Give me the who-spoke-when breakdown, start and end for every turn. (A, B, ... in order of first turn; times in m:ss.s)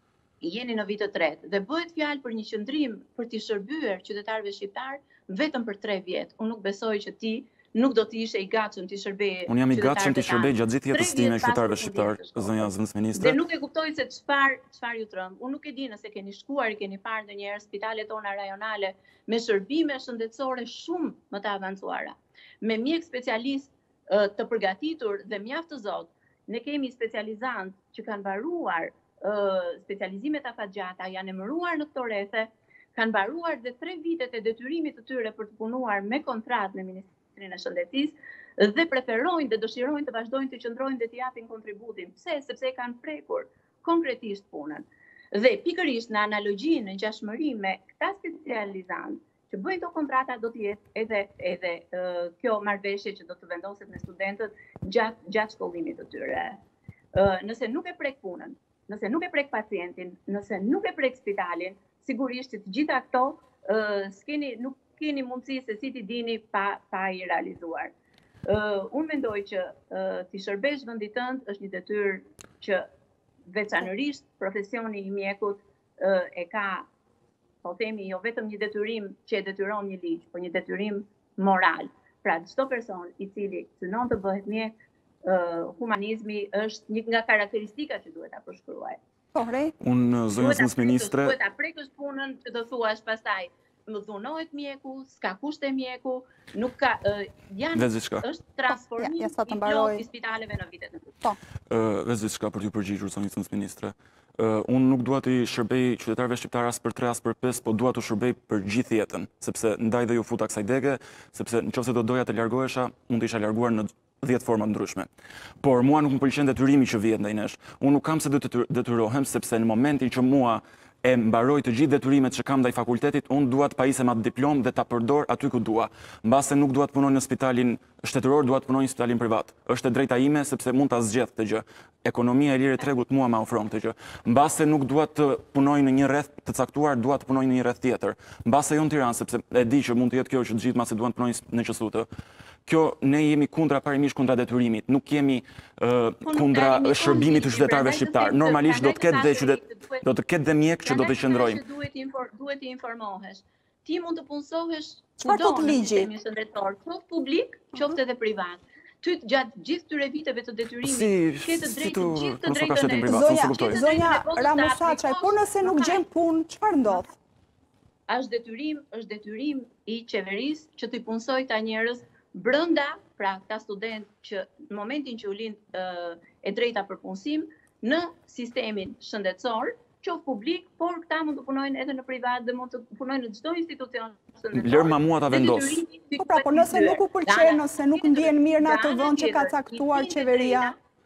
0:00.4-0:56.6 A
0:09.5-0:13.4 B
0:57.1-1:07.9 A
1:08.4-1:12.8 A
1:13.5-1:16.9 A
1:17.6-1:24.7 A
1:25.2-1:29.0 A
1:29.3-1:29.7 C
1:29.8-1:31.4 B
1:30.3-1:41.2 A
1:37.7-1:38.2 B
1:38.7-1:40.0 C
1:41.7-1:55.1 B
1:55.6-2:22.1 B
2:22.6-2:31.6 B
2:26.2-2:30.1 A
2:30.8-2:46.0 A
2:35.2-2:36.1 C
2:40.8-2:43.8 B
2:43.1-2:47.1 C
2:48.1-3:10.8 A
3:04.5-3:05.8 B
3:06.2-3:10.7 C